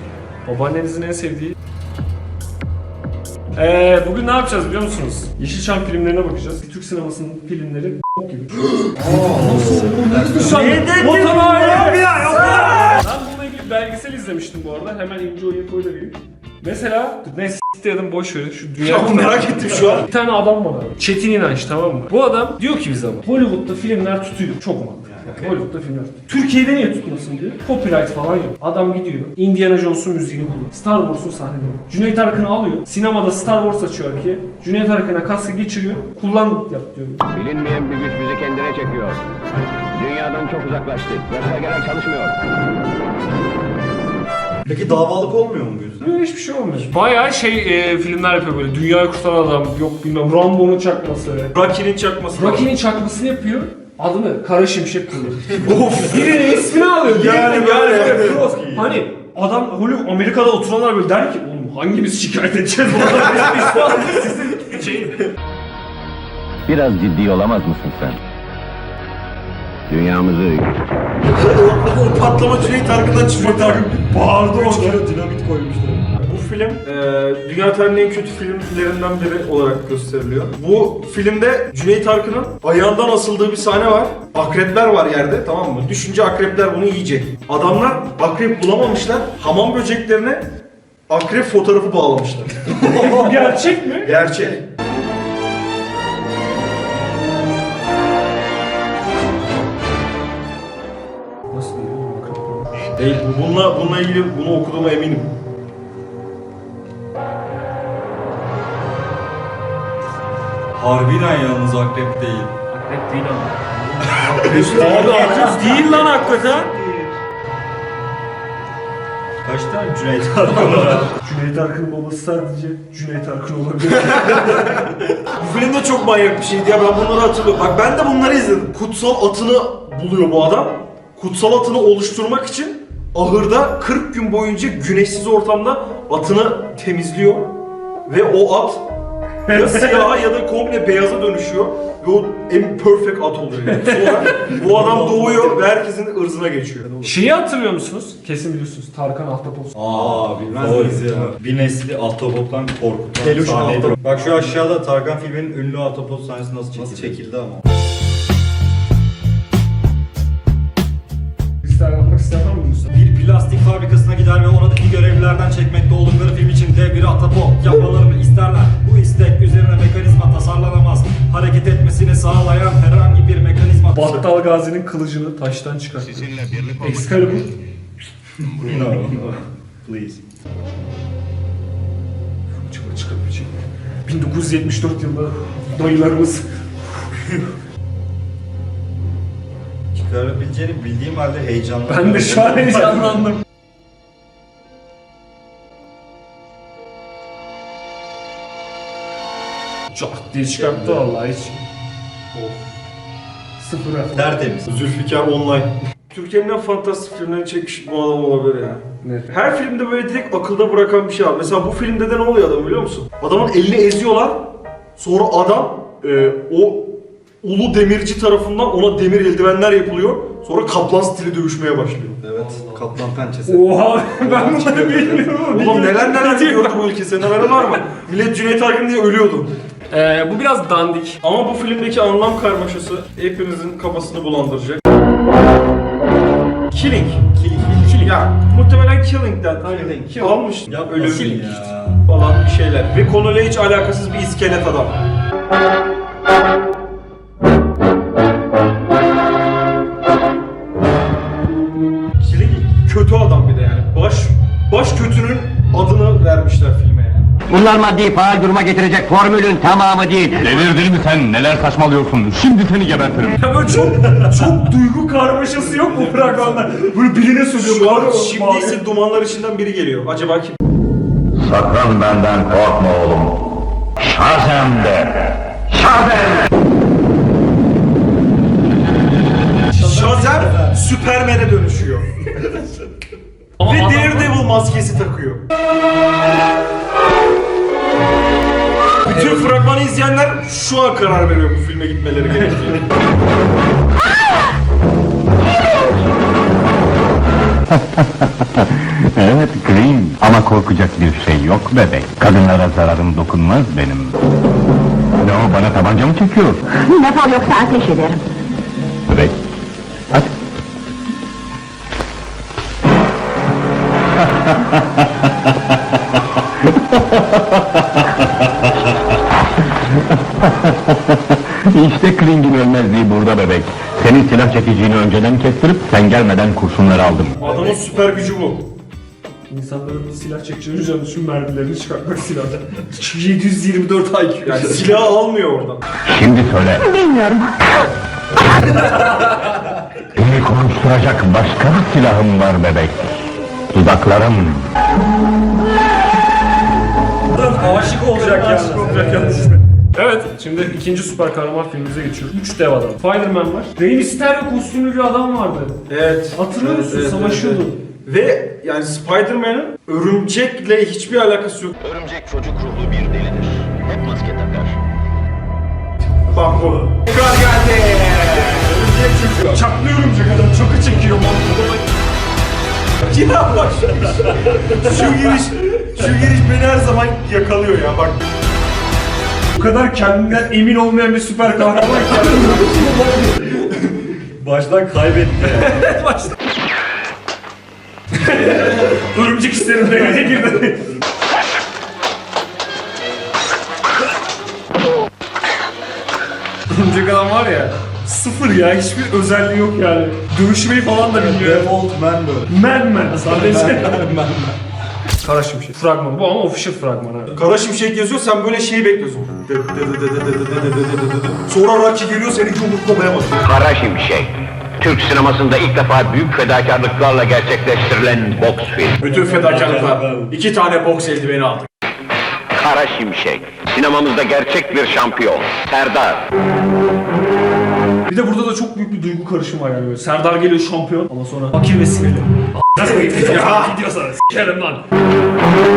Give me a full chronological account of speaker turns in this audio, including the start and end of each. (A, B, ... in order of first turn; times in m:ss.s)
0:00.4-0:01.6 A
0:03.5-0:37.2 A
0:09.0-0:10.6 B
0:10.3-0:13.0 C
0:18.8-0:20.1 C
0:37.3-0:39.2 D
0:39.9-0:42.4 D
0:44.7-0:46.1 B
0:46.0-0:51.5 A
0:51.5-0:52.7 C
0:52.3-1:05.3 A
0:55.5-0:58.9 C
1:06.7-1:08.2 D
1:09.9-1:10.8 D
1:11.3-1:13.9 C
1:13.3-1:15.0 A
1:14.5-1:30.5 C
1:14.8-1:15.8 B
1:31.1-1:34.6 C
1:32.9-1:34.2 A
1:41.5-1:42.9 A
1:43.0-1:45.3 C
1:50.8-1:52.5 B
1:52.7-1:56.7 A
1:54.2-1:56.2 B
1:54.4-1:56.7 C
1:59.4-2:01.1 B
2:00.6-2:04.8 A
2:05.3-2:17.5 C
2:18.1-2:18.8 C
2:19.5-2:20.0 A
2:19.5-2:27.1 C
2:23.7-2:24.2 A
2:24.6-2:25.4 B
2:27.0-2:29.8 A
2:29.8-2:37.3 B
2:30.6-2:31.0 C
2:33.2-2:34.6 C
2:41.6-2:42.9 A
2:42.9-2:54.2 B
2:53.9-2:57.5 A
2:58.5-3:00.2 B
3:02.5-3:06.5 A
3:09.9-3:13.3 B
3:11.9-3:13.4 A
3:19.9-3:21.6 A
3:20.7-3:21.0 C
3:23.6-3:24.3 A
3:24.1-3:24.7 B
3:24.7-3:34.5 C
3:29.0-3:29.3 A
3:35.0-3:42.5 C
3:42.3-3:43.6 B
3:43.4-3:46.8 A
3:44.2-3:45.3 B
3:45.5-3:49.5 C
3:49.9-3:51.2 A
3:51.2-3:54.8 C
3:56.7-3:57.2 C
3:57.3-3:58.1 B
3:57.9-4:05.0 C
3:59.7-4:02.0 B
4:12.2-4:17.3 C
4:17.5-4:20.6 D
4:20.4-4:23.5 E
4:23.4-4:28.8 A
4:27.6-4:30.6 C
4:31.4-4:33.4 E
4:34.0-4:35.2 E
4:35.7-4:36.5 E
4:39.7-4:40.7 A
4:39.7-4:42.0 C
4:43.6-4:44.4 A
4:43.6-4:45.4 C
4:49.0-4:52.8 C
4:59.2-5:04.1 E
4:59.2-5:00.3 D
5:05.2-5:06.6 E
5:05.8-5:06.6 D
5:06.8-5:08.2 F
5:09.1-5:09.3 E
5:21.7-5:26.6 D
5:22.0-5:22.4 E
5:22.9-5:27.5 E
5:27.4-5:28.6 C
5:29.5-5:35.0 A
5:34.4-5:35.8 C
5:36.1-5:36.8 D
5:36.8-5:37.5 F
5:40.2-5:43.1 E
5:40.2-5:43.1 D
5:43.7-5:44.3 E
5:43.7-5:44.6 D
5:47.3-5:55.8 A
5:47.5-5:49.6 C
5:55.9-6:01.8 C
5:56.3-5:57.8 A
6:01.8-6:04.8 D
6:06.3-6:08.8 C
6:08.6-6:09.6 B
6:09.4-6:11.8 A
6:13.0-6:18.2 C
6:19.5-6:23.6 A
6:24.2-6:25.9 B
6:25.4-6:26.3 A
6:28.1-6:30.9 A
6:36.7-6:41.8 A
6:41.1-6:42.5 B
6:42.5-6:44.2 A
6:43.2-6:44.5 B
6:45.2-6:47.4 A
6:47.3-6:53.5 C
6:53.4-6:59.0 D
6:59.0-7:01.7 C
6:59.0-7:00.3 B
7:02.5-7:06.3 D
7:08.1-7:14.8 A
7:13.0-7:13.8 C